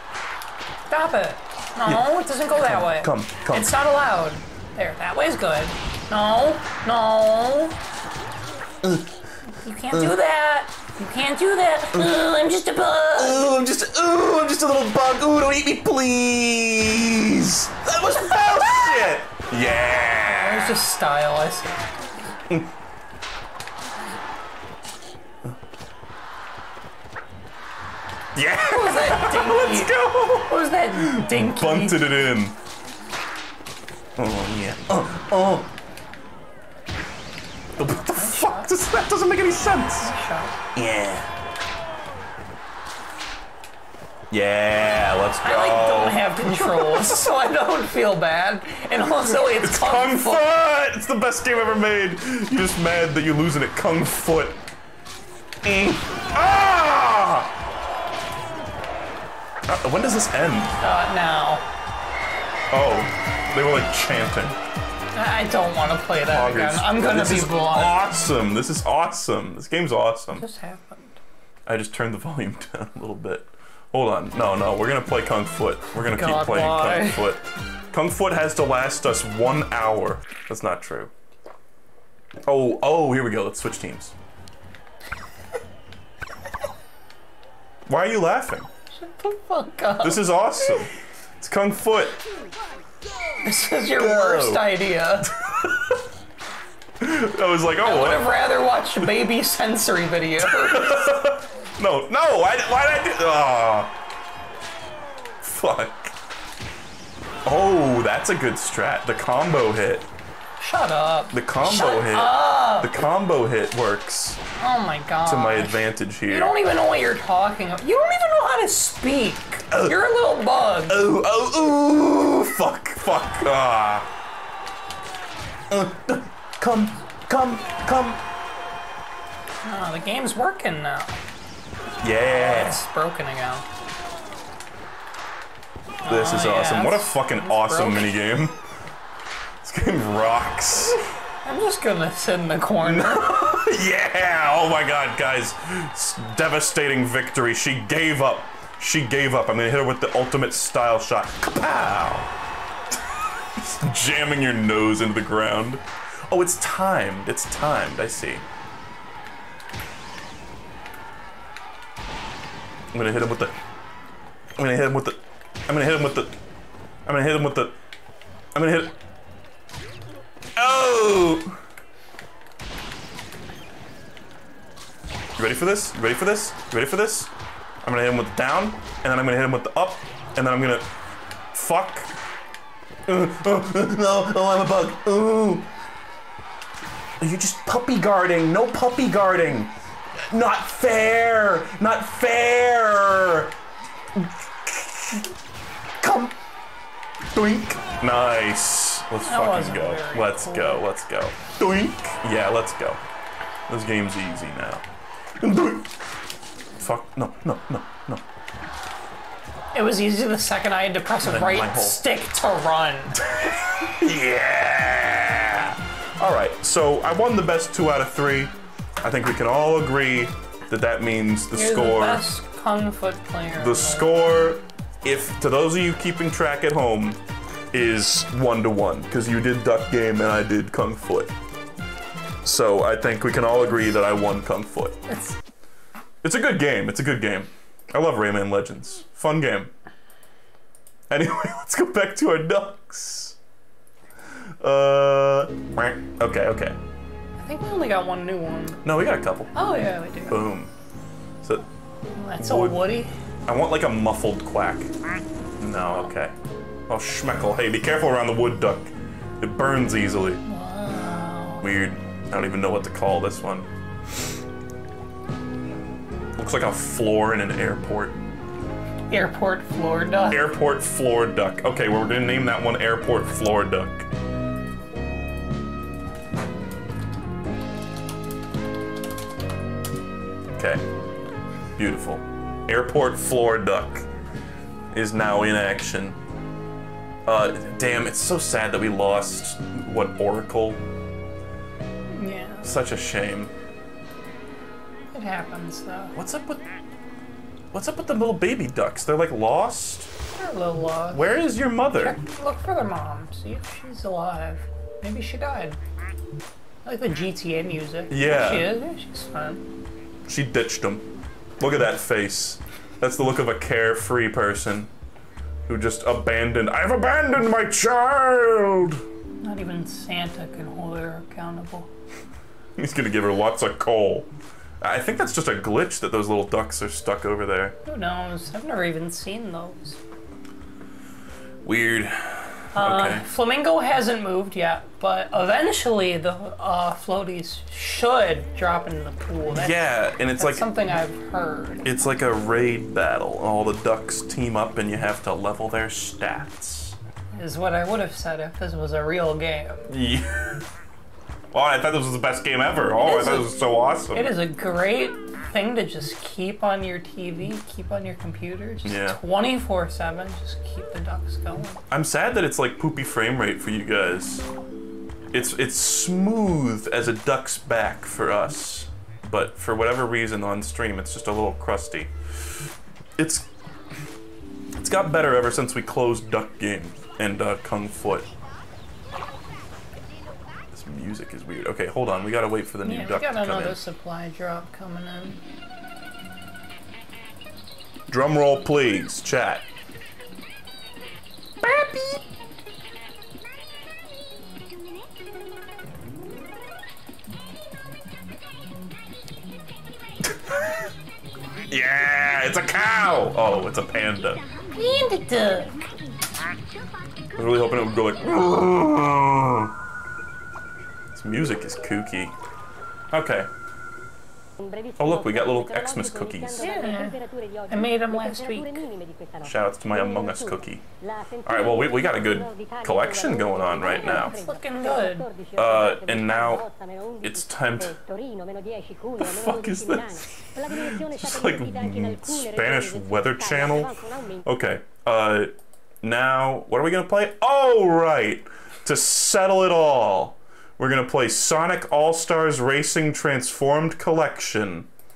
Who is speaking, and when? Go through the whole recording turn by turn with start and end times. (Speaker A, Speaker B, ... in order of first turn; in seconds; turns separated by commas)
Speaker A: 0.9-7.8, Speaker B: 1.9-3.7, Speaker B: 8.8-9.1, Speaker A: 9.5-13.5, Speaker B: 13.2-20.8, Speaker A: 20.2-21.9, Speaker B: 28.4-32.6, Speaker A: 28.7-32.2, Speaker B: 34.2-35.7, Speaker B: 37.8-40.1, Speaker A: 38.1-38.7, Speaker A: 40.0-40.6, Speaker B: 40.8-41.3, Speaker B: 44.3-47.3, Speaker A: 45.4-50.5, Speaker B: 49.2-54.6, Speaker B: 55.6-57.5, Speaker B: 59.7-60.8, Speaker A: 60.8-61.6, Speaker B: 62.7-64.6, Speaker A: 65.2-68.0, Speaker B: 66.2-70.4, Speaker A: 70.4-71.2, Speaker B: 71.7-81.1, Speaker A: 76.1-77.3, Speaker B: 82.5-84.1, Speaker B: 87.9-88.7, Speaker A: 88.9-90.9, Speaker B: 90.0-92.2, Speaker A: 93.4-95.3, Speaker B: 93.9-96.0, Speaker B: 97.0-98.5, Speaker A: 97.8-101.0, Speaker B: 100.4-103.9, Speaker B: 105.4-106.1, Speaker B: 107.5-110.1, Speaker A: 110.6-112.9, Speaker B: 111.3-114.4, Speaker A: 114.6-121.0, Speaker B: 115.2-116.5, Speaker B: 119.7-120.0, Speaker B: 120.9-124.1, Speaker B: 125.7-128.2, Speaker A: 129.6-131.2, Speaker B: 132.0-132.8, Speaker A: 132.3-133.7, Speaker A: 136.0-138.2, Speaker B: 136.0-138.6, Speaker B: 139.6-141.0, Speaker A: 141.4-143.4, Speaker B: 142.8-152.3, Speaker B: 152.9-158.4, Speaker B: 162.9-163.6, Speaker B: 164.6-166.3, Speaker B: 167.1-167.8, Speaker B: 168.6-169.0, Speaker B: 170.6-171.6, Speaker B: 175.4-177.3, Speaker B: 177.8-180.9, Speaker B: 181.5-182.1, Speaker B: 183.1-185.7, Speaker B: 187.2-189.7, Speaker B: 190.3-193.5, Speaker B: 194.2-195.3, Speaker B: 196.0-196.3, Speaker B: 197.3-203.0, Speaker A: 199.2-200.9, Speaker B: 203.7-204.8, Speaker B: 205.4-205.9, Speaker B: 206.8-208.2, Speaker A: 209.7-213.2, Speaker B: 211.2-212.0, Speaker B: 213.2-222.3, Speaker A: 221.5-224.3, Speaker B: 223.6-227.2, Speaker B: 227.7-231.3, Speaker B: 232.4-235.0, Speaker A: 235.1-235.4, Speaker B: 236.2-239.7, Speaker B: 241.1-243.4, Speaker B: 244.6-246.8, Speaker A: 247.4-248.8, Speaker B: 248.8-249.7, Speaker A: 249.5-250.4, Speaker B: 250.3-250.7, Speaker A: 252.2-253.1, Speaker B: 252.4-252.9, Speaker B: 253.5-254.9, Speaker B: 255.6-256.3, Speaker B: 256.9-260.4, Speaker A: 260.4-261.7, Speaker B: 261.6-263.7, Speaker B: 266.4-268.2, Speaker A: 269.1-270.5, Speaker B: 270.3-274.1, Speaker B: 280.6-280.9, Speaker B: 281.8-284.1, Speaker B: 284.9-286.2, Speaker B: 287.3-290.8, Speaker A: 292.1-292.7, Speaker B: 292.6-293.5, Speaker A: 295.1-296.1, Speaker B: 296.1-296.7, Speaker B: 297.7-300.1, Speaker A: 300.3-301.3, Speaker B: 301.1-302.2, Speaker A: 301.9-305.8, Speaker A: 306.9-309.6, Speaker B: 308.1-308.8, Speaker B: 310.3-314.9, Speaker B: 315.7-319.0, Speaker A: 319.4-321.9, Speaker B: 322.8-324.3, Speaker B: 324.8-327.8, Speaker A: 327.9-330.0, Speaker B: 331.6-333.3, Speaker A: 332.7-339.8, Speaker B: 339.5-340.7, Speaker A: 340.4-341.9, Speaker B: 341.8-347.0, Speaker A: 347.3-349.9, Speaker B: 349.9-350.7, Speaker B: 351.5-354.3, Speaker A: 353.0-353.5, Speaker A: 354.1-361.8, Speaker B: 358.8-359.2, Speaker B: 361.9-364.5, Speaker B: 365.3-372.6, Speaker B: 373.2-373.5, Speaker B: 374.8-378.3, Speaker B: 380.7-383.8, Speaker A: 382.8-385.4, Speaker B: 388.1-389.6, Speaker B: 391.6-392.2, Speaker B: 400.2-400.9, Speaker B: 401.7-404.4, Speaker A: 404.8-405.8, Speaker B: 407.4-409.8, Speaker B: 411.1-412.4, Speaker B: 413.1-413.5, Speaker B: 415.0-416.6, Speaker A: 416.5-418.9, Speaker B: 419.4-420.8, Speaker B: 421.4-424.4, Speaker A: 424.1-425.3, Speaker B: 425.5-426.7, Speaker B: 427.2-428.0, Speaker B: 429.2-444.9